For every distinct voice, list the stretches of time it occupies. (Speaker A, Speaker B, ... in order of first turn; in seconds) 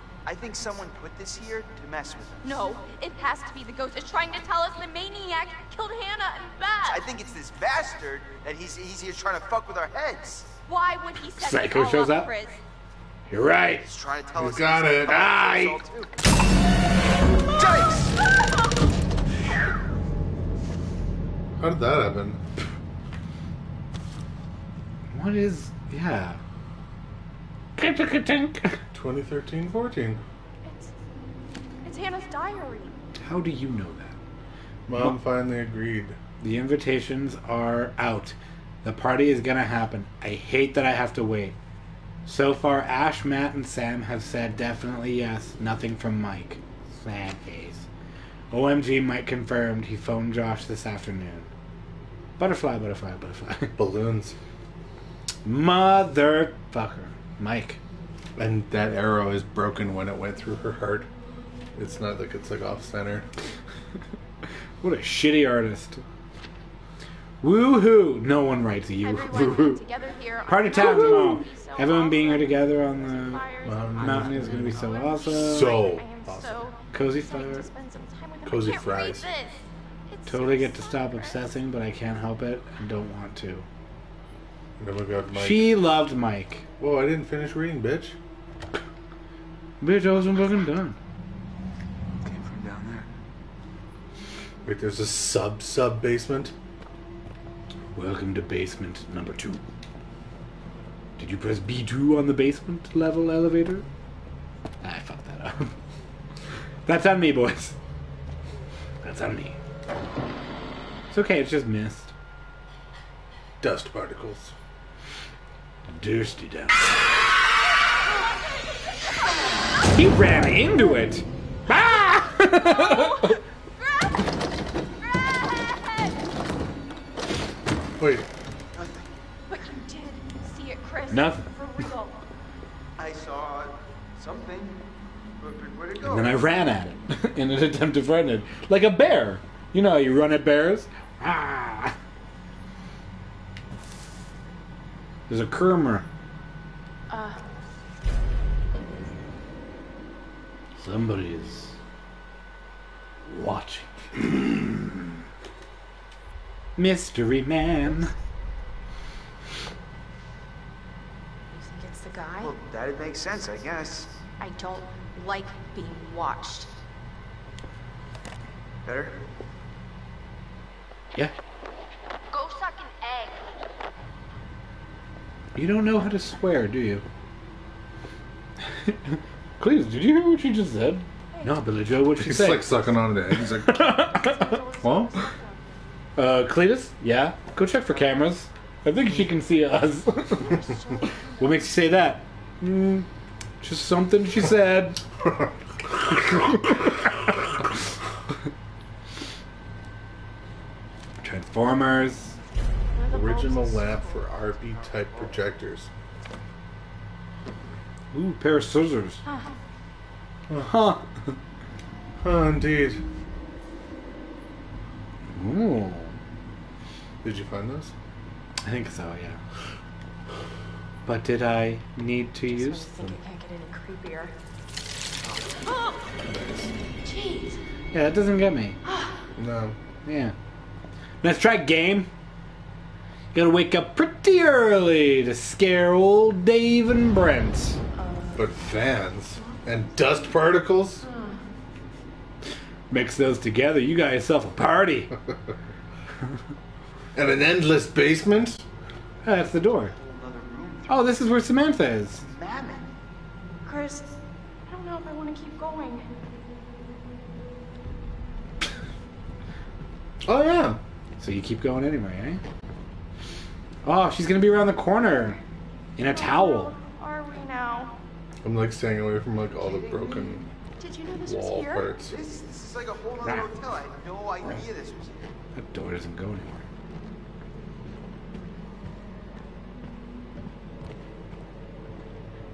Speaker A: 0.2-2.5, 6.9-10.5, 13.8-16.1, 17.5-18.2, 92.2-93.1, 128.7-129.2, 133.0-134.8, 135.4-136.5, 162.4-164.1, 168.8-169.2, 204.5-205.4, 249.6-251.3, 252.2-252.9, 272.1-275.3
Speaker B: 2.4-7.1, 10.7-12.6, 30.6-30.9, 31.8-33.0, 69.0-81.5, 117.9-120.9, 121.8-124.4, 125.0-126.2, 129.5-132.2, 147.1-147.4, 161.5-162.5, 164.4-166.7, 172.3-173.4, 181.3-181.7, 183.7-185.8, 190.5-191.7, 202.9-204.2, 209.3-209.6, 222.5-224.3, 225.7-226.0, 227.0-227.6, 228.8-229.2, 238.0-238.5, 239.4-239.9, 241.0-241.4, 253.7-254.2, 254.7-256.1, 266.0-267.9, 269.6-271.9
Speaker C: 11.4-12.3, 13.3-13.8, 15.1-15.8, 25.1-26.4, 27.8-28.8, 33.2-34.2, 36.4-41.6, 42.3-47.9, 48.5-51.5, 52.4-53.8, 55.5-57.8, 64.8-66.0, 67.4-69.8, 70.5-73.5, 74.0-75.8, 76.9-77.7, 80.3-83.7, 85.3-86.7, 89.8-91.0, 98.0-99.6, 101.2-103.8, 104.8-105.8, 106.9-107.8, 109.0-109.6, 111.1-112.1, 115.9-117.0, 119.9-123.4, 131.1-131.5, 136.0-141.9, 145.3-146.1, 150.8-151.8, 153.3-155.0, 156.8-158.1, 175.6-177.1, 178.8-185.1, 186.2-190.7, 191.4-193.1, 193.6-195.0, 196.1-197.3, 201.2-202.4, 208.1-209.2, 210.6-211.4, 215.3-216.2, 218.6-219.4, 221.1-222.9, 227.9-228.8, 230.1-230.3, 231.2-232.1, 233.3-237.8, 242.9-245.1, 249.2-249.9, 250.9-252.2, 261.2-262.4, 263.9-265.4, 266.0-266.7, 275.6-276.7
Speaker D: 14.4-15.3, 21.6-22.4, 28.9-30.2, 34.9-36.2, 53.8-54.4, 58.4-61.1, 61.8-63.3, 73.6-76.6, 78.5-79.3, 84.8-85.9, 86.8-88.2, 94.7-96.5, 113.6-114.5, 128.0-128.3, 182.2-183.8, 203.1-205.9, 210.5-210.8, 212.2-213.0, 217.2-217.9, 226.2-226.7, 229.4-229.8, 238.3-241.1, 247.2-248.6, 260.2-260.8, 268.4-270.4, 271.2-272.2